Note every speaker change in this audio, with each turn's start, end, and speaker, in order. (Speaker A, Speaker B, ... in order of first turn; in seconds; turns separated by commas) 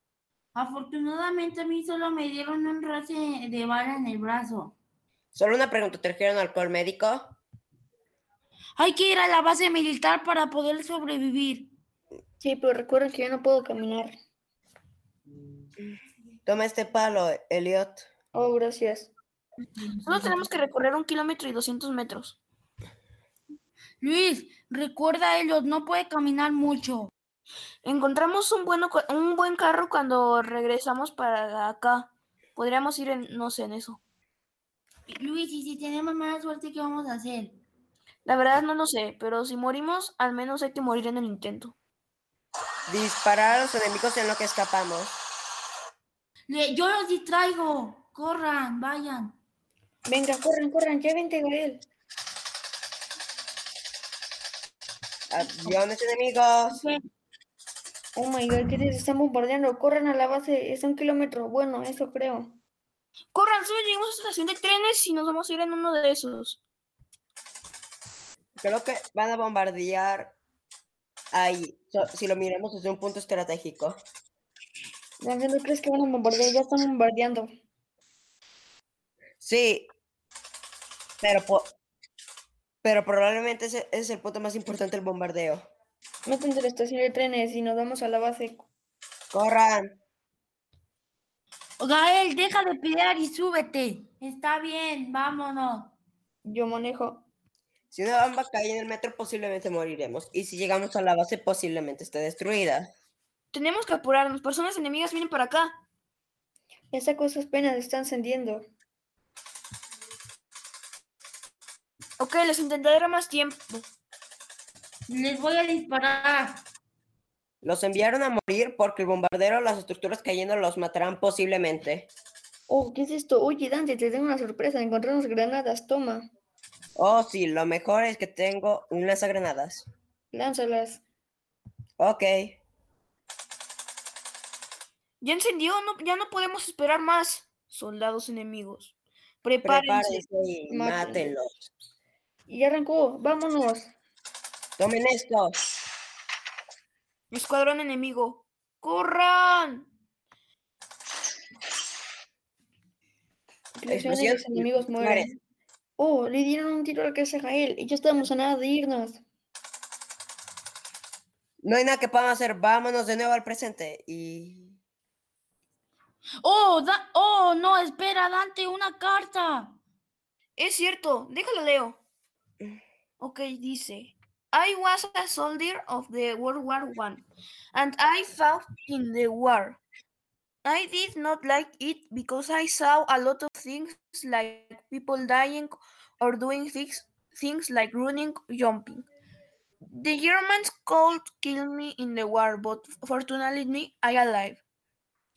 Speaker A: 0.5-4.7, Speaker B: 5.3-7.4, Speaker A: 8.8-11.7, Speaker C: 12.4-14.1, Speaker B: 16.4-18.1, Speaker C: 18.3-19.1, Speaker A: 19.8-20.4, Speaker D: 20.0-22.4, Speaker A: 24.0-27.1, Speaker D: 27.8-34.0, Speaker A: 35.1-37.6, Speaker D: 38.2-41.7, Speaker B: 42.9-45.1, Speaker A: 46.5-49.4, Speaker C: 50.0-51.9, Speaker B: 55.3-56.8, Speaker A: 56.7-57.0, Speaker C: 58.1-62.6, Speaker D: 63.3-66.6, Speaker B: 68.6-70.3, Speaker B: 71.3-74.0, Speaker C: 75.2-77.5, Speaker B: 79.4-79.9, Speaker B: 81.2-81.7, Speaker B: 82.8-85.7, Speaker C: 86.2-88.7, Speaker B: 89.3-89.9, Speaker A: 91.8-96.0, Speaker C: 96.4-97.2, Speaker B: 97.9-102.9, Speaker D: 103.5-105.8, Speaker C: 106.9-108.6, Speaker D: 112.2-113.8, Speaker A: 115.1-116.6, Speaker B: 117.6-122.1, Speaker C: 122.7-126.3, Speaker B: 127.0-129.9, Speaker C: 130.3-131.0, Speaker B: 132.0-132.6, Speaker D: 135.2-140.2, Speaker B: 139.6-141.7, Speaker C: 140.7-141.3, Speaker C: 142.5-143.9, Speaker B: 144.8-145.6, Speaker D: 147.3-149.9, Speaker C: 153.8-155.3, Speaker B: 153.9-155.3, Speaker C: 156.0-159.2, Speaker B: 161.6-164.8, Speaker A: 166.4-169.8, Speaker D: 170.6-172.0, Speaker D: 173.2-179.8, Speaker D: 180.6-189.1, Speaker D: 189.8-194.6